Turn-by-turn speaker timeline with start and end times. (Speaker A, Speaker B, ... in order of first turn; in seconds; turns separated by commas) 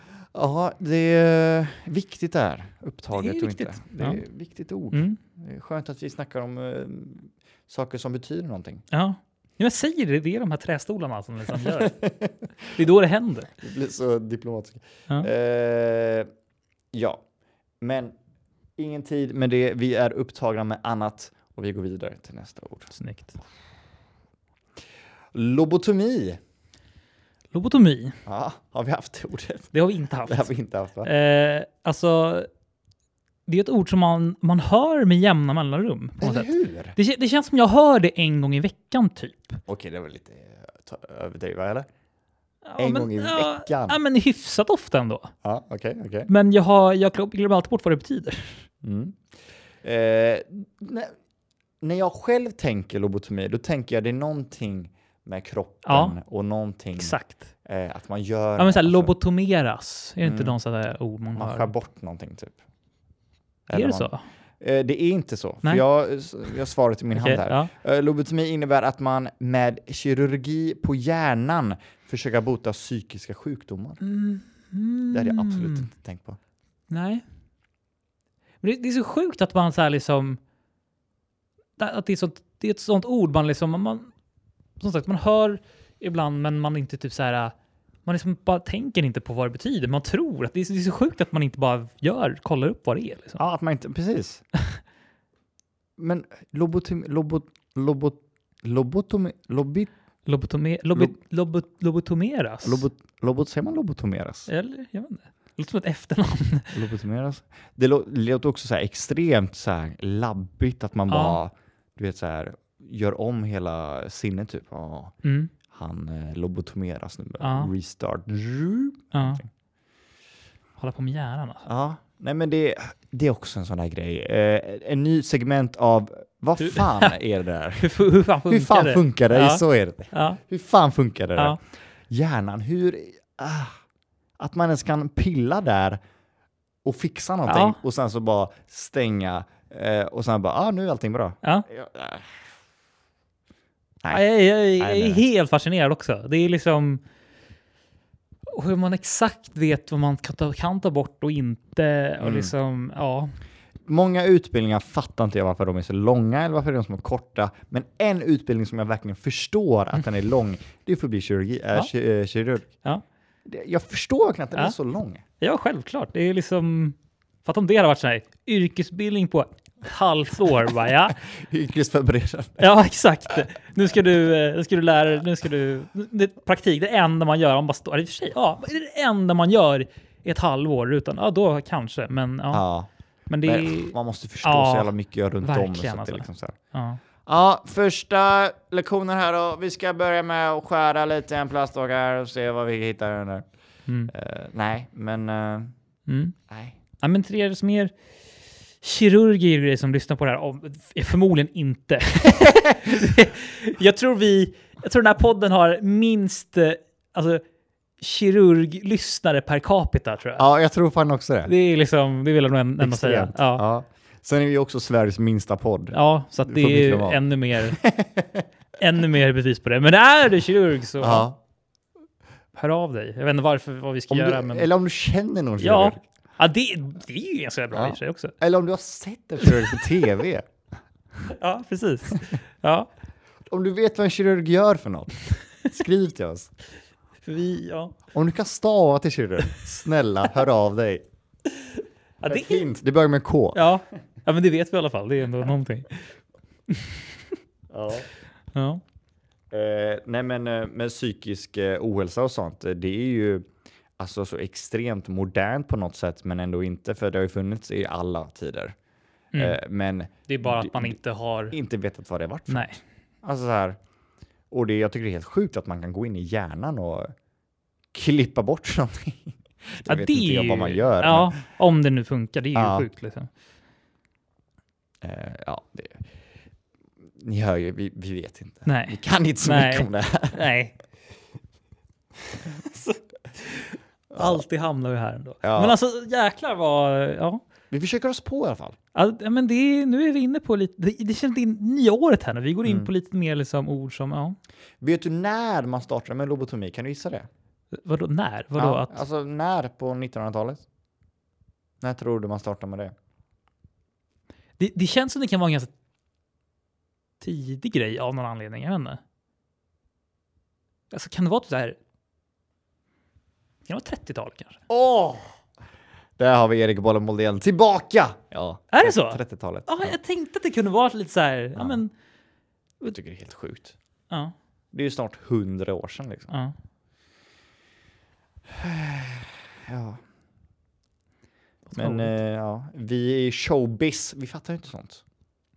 Speaker A: 0.3-8.8, Speaker B: 3.1-4.2, Speaker B: 4.9-5.2, Speaker B: 8.9-12.0, Speaker A: 11.6-12.8, Speaker B: 12.8-13.5, Speaker A: 13.6-16.3, Speaker A: 16.9-17.2, Speaker A: 17.8-18.1, Speaker A: 18.8-22.9, Speaker B: 22.9-23.4, Speaker A: 25.3-26.4, Speaker B: 27.5-28.2, Speaker A: 28.3-29.7, Speaker B: 29.7-30.5, Speaker A: 30.3-31.1, Speaker B: 31.0-32.5, Speaker B: 33.5-39.6, Speaker A: 36.2-37.0, Speaker A: 39.7-41.9, Speaker B: 42.6-45.3, Speaker A: 42.8-44.0, Speaker A: 45.4-46.3, Speaker B: 46.3-48.6, Speaker A: 48.8-49.2, Speaker A: 49.8-51.1, Speaker A: 51.8-59.1, Speaker B: 55.9-56.2, Speaker B: 57.0-57.5, Speaker B: 58.6-61.7, Speaker A: 60.2-60.5, Speaker A: 61.4-62.6, Speaker A: 63.7-74.0, Speaker B: 63.7-64.2, Speaker B: 67.2-67.7, Speaker B: 74.0-75.9, Speaker A: 75.1-76.4, Speaker B: 76.9-77.2, Speaker B: 78.6-80.4, Speaker B: 81.8-84.1, Speaker B: 84.8-93.4, Speaker A: 93.4-94.4, Speaker A: 96.0-99.9, Speaker B: 100.3-102.8, Speaker A: 102.6-104.5, Speaker B: 104.5-106.8, Speaker A: 106.7-115.1, Speaker B: 111.1-111.4, Speaker B: 115.2-115.5, Speaker A: 115.7-119.5, Speaker B: 117.4-117.7, Speaker B: 119.1-119.4, Speaker B: 120.8-121.7, Speaker A: 121.7-128.0, Speaker B: 126.6-127.1, Speaker B: 127.8-130.4, Speaker A: 128.5-131.6, Speaker A: 132.1-133.8, Speaker A: 134.4-136.0, Speaker A: 136.8-142.3, Speaker B: 137.5-137.8, Speaker B: 144.1-147.0, Speaker A: 144.8-145.2, Speaker B: 148.5-153.3, Speaker A: 152.2-152.5, Speaker A: 153.9-162.7, Speaker A: 163.5-165.2, Speaker B: 165.4-171.2, Speaker A: 171.3-172.6, Speaker B: 172.6-182.6, Speaker A: 182.5-182.9, Speaker B: 183.3-184.9, Speaker A: 183.4-186.6, Speaker B: 185.4-187.0, Speaker A: 187.3-193.4, Speaker B: 193.9-194.1, Speaker A: 194.1-195.7, Speaker B: 196.1-196.3, Speaker A: 196.5-196.8, Speaker B: 197.0-197.9, Speaker B: 198.8-207.4, Speaker B: 208.0-210.4, Speaker A: 210.4-211.5, Speaker B: 211.5-213.6, Speaker A: 212.8-218.4, Speaker B: 215.9-217.8, Speaker B: 218.8-221.3, Speaker A: 221.0-221.4, Speaker B: 222.6-224.7, Speaker A: 224.1-226.0, Speaker B: 225.6-228.4, Speaker A: 227.7-230.5, Speaker B: 229.4-229.8, Speaker B: 231.3-232.9, Speaker A: 233.5-236.5, Speaker B: 237.2-237.9, Speaker A: 238.1-241.0, Speaker B: 241.5-242.7, Speaker A: 242.3-243.7, Speaker B: 243.5-246.0, Speaker B: 246.7-247.4, Speaker A: 247.7-248.1, Speaker B: 248.5-248.8, Speaker A: 249.5-253.4, Speaker A: 254.0-258.8, Speaker A: 259.4-261.0, Speaker B: 260.3-261.6, Speaker A: 261.5-263.8, Speaker B: 262.5-262.8, Speaker A: 264.5-267.1, Speaker A: 267.9-271.4, Speaker B: 269.9-273.3, Speaker A: 272.6-272.9, Speaker A: 275.0-276.1, Speaker A: 277.2-280.4, Speaker B: 278.7-280.8, Speaker B: 282.4-287.4, Speaker A: 284.1-284.4, Speaker A: 285.4-285.8, Speaker A: 287.7-288.8, Speaker B: 288.9-294.4, Speaker A: 292.6-292.9, Speaker A: 294.8-297.3, Speaker B: 297.7-299.0, Speaker A: 298.6-300.6, Speaker A: 301.8-302.9, Speaker B: 304.6-305.7, Speaker B: 307.2-309.0, Speaker B: 310.9-311.8, Speaker B: 313.7-314.6, Speaker A: 314.7-315.3, Speaker A: 316.2-319.9, Speaker B: 318.7-321.9, Speaker A: 322.9-323.8, Speaker A: 324.7-326.3, Speaker A: 328.5-330.0, Speaker B: 331.7-332.1, Speaker A: 331.8-335.0